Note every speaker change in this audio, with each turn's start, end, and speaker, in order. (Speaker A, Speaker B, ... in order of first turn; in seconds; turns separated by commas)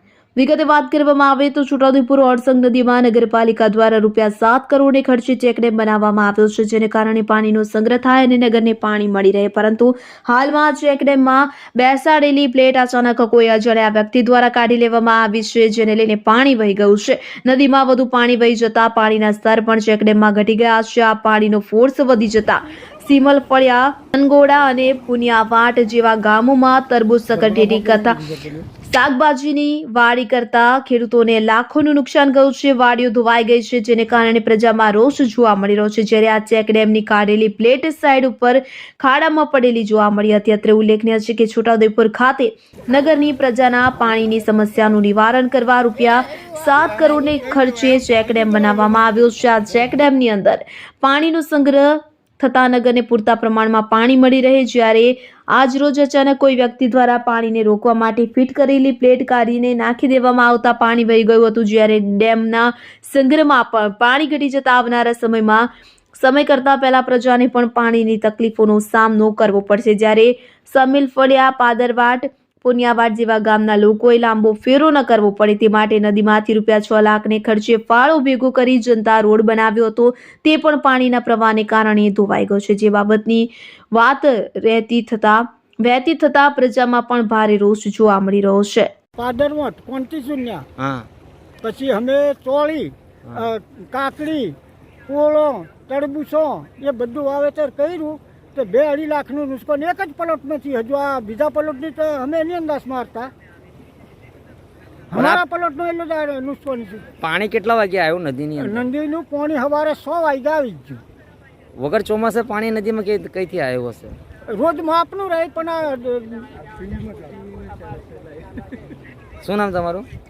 Speaker A: 0.4-28.2, Speaker B: 27.3-28.6, Speaker A: 28.8-88.9, Speaker B: 47.2-48.5, Speaker B: 89.2-90.6, Speaker C: 90.8-91.1, Speaker B: 91.6-94.5, Speaker B: 95.1-103.3, Speaker B: 105.1-107.1, Speaker C: 105.1-105.4, Speaker C: 107.2-108.8, Speaker B: 108.5-111.0, Speaker C: 111.8-114.2, Speaker B: 114.5-116.5, Speaker C: 119.4-120.1